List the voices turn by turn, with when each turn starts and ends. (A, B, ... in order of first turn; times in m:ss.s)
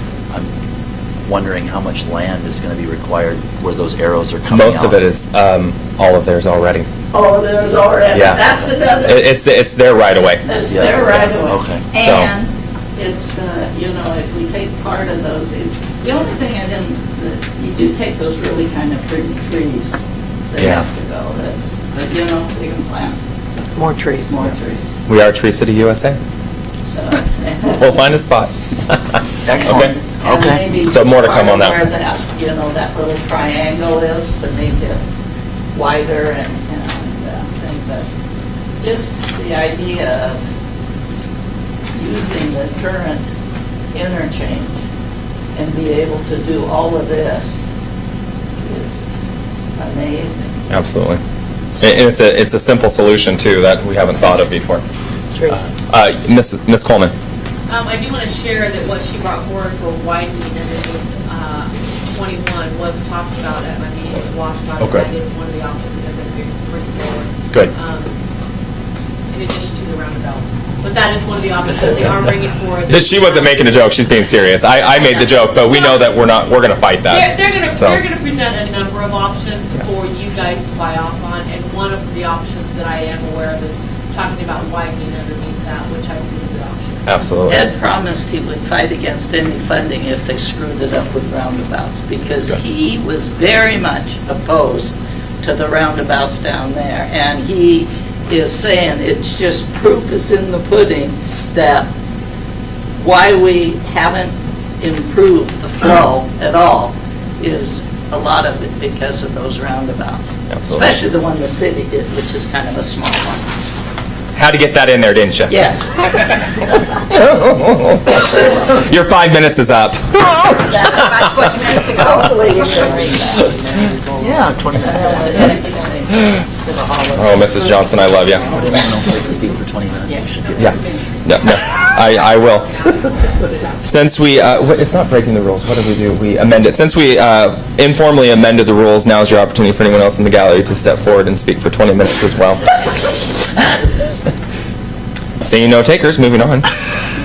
0:01.2-0:05.0 A
0:04.5-0:06.9 B
0:07.1-0:09.3 C
0:08.1-0:08.4 B
0:09.0-0:10.4 B
0:10.4-0:23.2 C
0:10.7-0:11.9 A
0:12.0-0:12.3 B
0:23.8-0:24.3 D
0:24.3-0:24.9 C
0:25.1-0:26.2 B
0:26.9-0:28.0 C
0:27.7-0:28.5 B
0:29.5-0:30.7 A
0:29.6-0:29.9 B
0:29.6-0:35.0 C
0:30.8-0:31.8 B
0:35.7-0:38.0 C
0:38.8-0:40.4 C
0:41.9-0:43.3 C
0:43.9-0:44.8 C
0:45.6-0:47.6 C
0:48.6-0:49.2 C
0:49.8-0:50.6 C
0:50.7-0:51.2 B
0:51.8-0:54.8 B
0:55.5-0:57.1 B
0:57.7-1:08.1 E
1:04.8-1:05.1 B
1:09.3-1:13.7 E
1:12.9-1:18.0 B
1:14.9-1:16.2 E
1:17.1-1:27.0 E
1:27.0-1:27.7 B
1:27.5-1:41.9 C
1:43.0-1:53.4 C
1:50.6-1:50.9 B
1:54.4-1:55.5 B
1:55.5-1:57.0 C
1:57.1-2:00.6 B
2:00.4-2:03.5 C
2:02.0-2:05.5 D
2:04.2-2:05.4 A
2:04.8-2:07.2 C
2:07.1-2:08.5 B
2:07.5-2:09.3 D
2:08.5-2:10.7 A
2:10.4-2:12.9 E
2:10.6-2:13.1 B
2:13.8-2:23.3 B
2:25.4-2:26.8 B